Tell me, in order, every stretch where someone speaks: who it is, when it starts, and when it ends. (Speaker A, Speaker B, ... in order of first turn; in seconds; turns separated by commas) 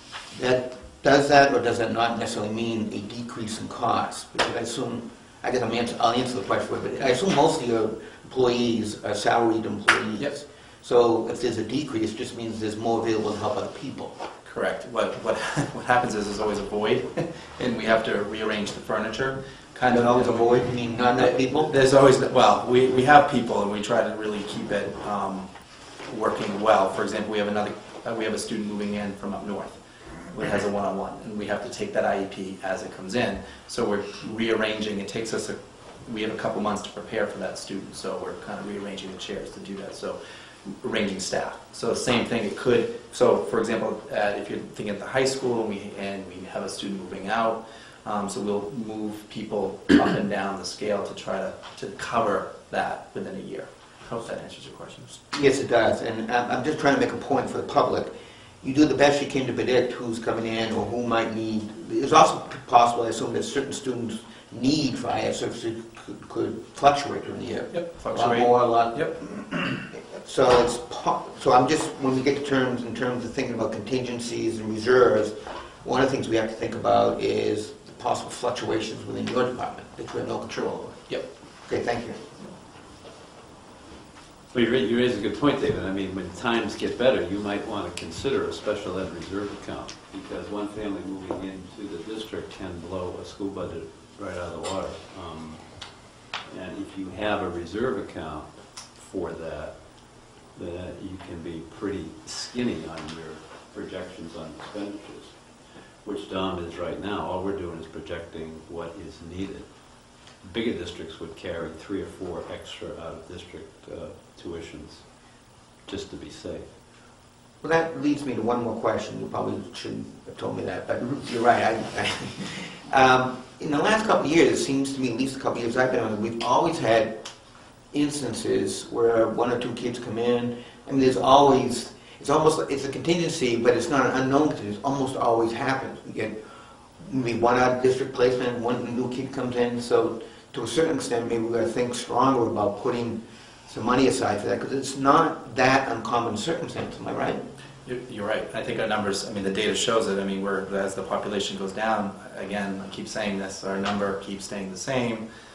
Speaker A: 0.3-14.2, Speaker B: 14.4-55.2, Speaker A: 19.9-21.7, Speaker A: 55.3-82.2, Speaker B: 67.7-69.8, Speaker C: 84.5-116.7, Speaker A: 117.6-127.2, Speaker A: 127.9-136.4, Speaker A: 137.0-147.4, Speaker B: 147.8-155.2